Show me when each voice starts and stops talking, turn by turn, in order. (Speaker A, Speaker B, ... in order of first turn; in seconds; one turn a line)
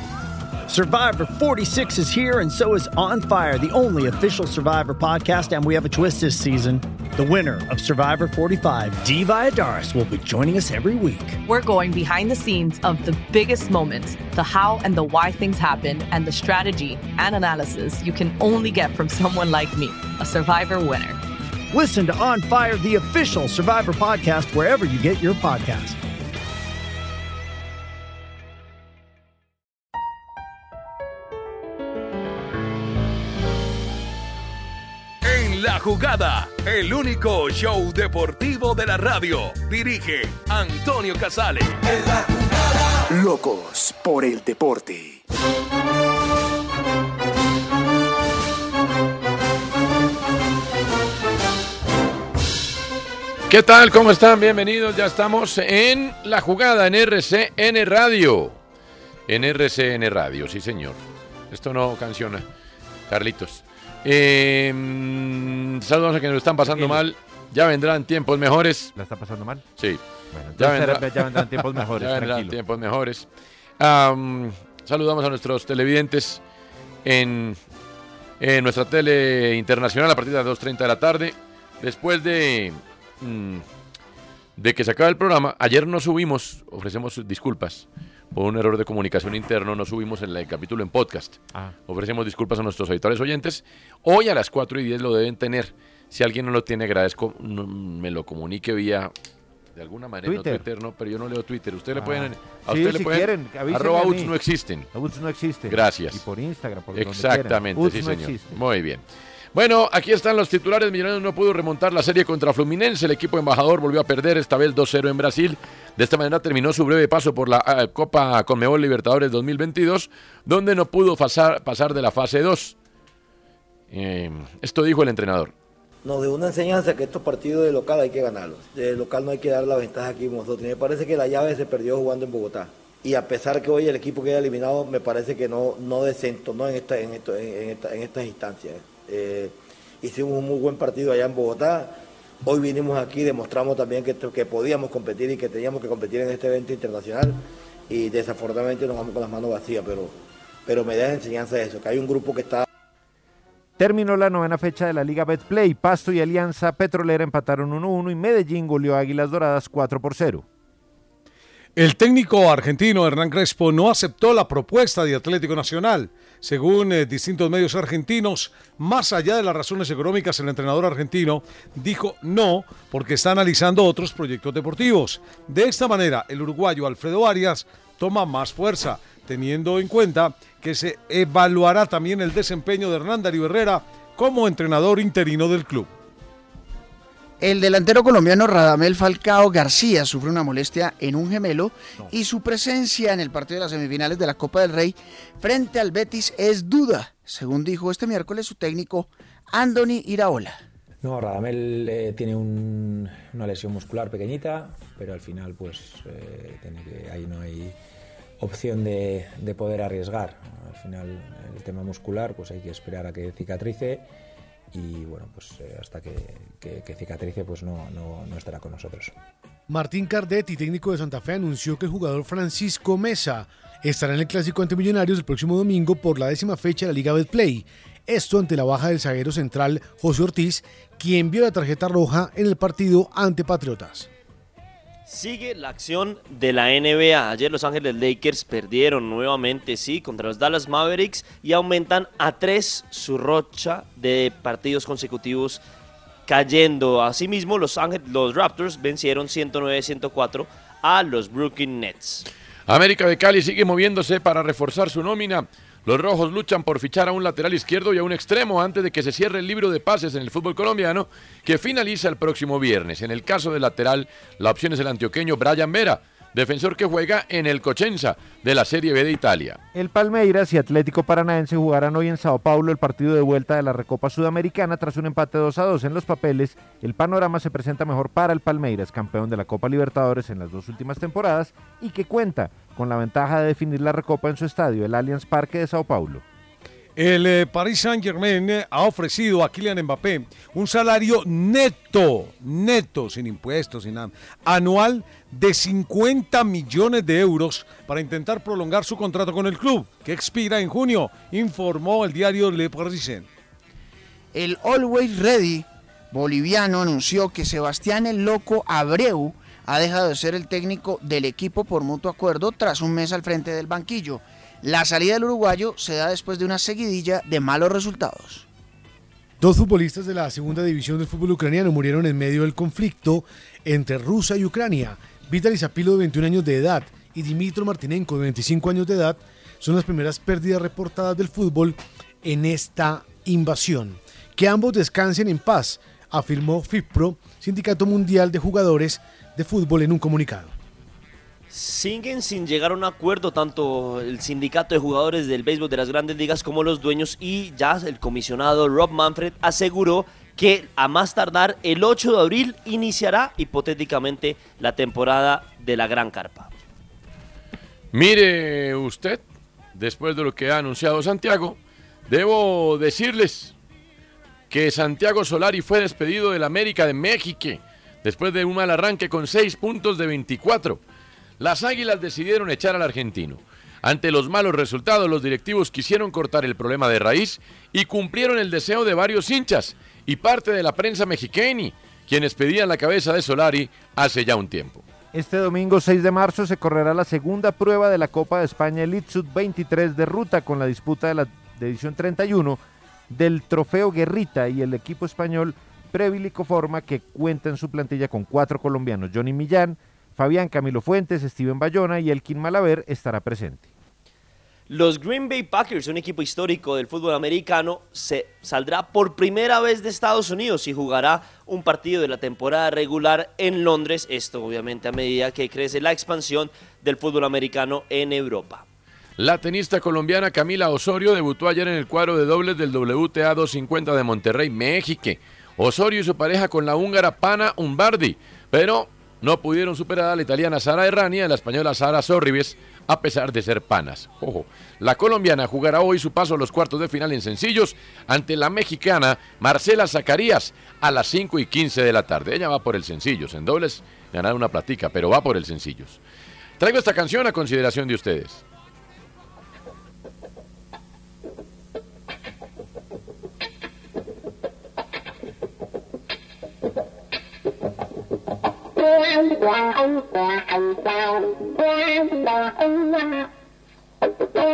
Speaker A: 0.7-11.4
Speaker B: 11.5-21.2
Speaker A: 21.7-26.0
Speaker C: 35.2-41.8
Speaker D: 53.5-58.6
Speaker D: 59.3-61.0
Speaker D: 61.5-62.5
Speaker D: 63.1-68.9
Speaker E: 66.7-67.0
Speaker E: 69.0-69.6
Speaker E: 70.3-72.6
Speaker D: 70.6-71.4
Speaker D: 72.0-73.3
Speaker D: 73.8-76.4
Speaker D: 77.0-77.6
Speaker D: 78.4-83.7
Speaker D: 84.6-99.1
Speaker D: 99.8-104.9
Speaker E: 100.2-100.6
Speaker E: 102.0-104.3
Speaker E: 104.9-108.6
Speaker D: 105.7-106.2
Speaker D: 106.9-109.0
Speaker D: 109.5-122.8
Speaker D: 123.9-125.5
Speaker F: 126.0-152.7
Speaker E: 153.8-160.4
Speaker G: 161.8-185.9
Speaker H: 187.4-200.6
Speaker I: 201.0-207.8
Speaker I: 208.4-214.1
Speaker I: 214.7-219.2
Speaker J: 219.7-234.1
Speaker K: 235.1-245.6
Speaker K: 246.3-252.3
Speaker D: 252.7-269.6
Speaker E: 269.7-286.2
Speaker G: 287.0-303.3
Speaker H: 304.3-318.5
Speaker J: 319.4-340.5
Speaker K: 341.5-356.5
Speaker D: 357.9-359.2
Speaker D: 359.8-363.6
Speaker D: 364.5-370.8
Speaker D: 371.4-384.8
Speaker E: 385.1-403.7
Speaker K: 404.7-418.6
Speaker D: 419.2-446.0
Speaker D: 446.6-448.4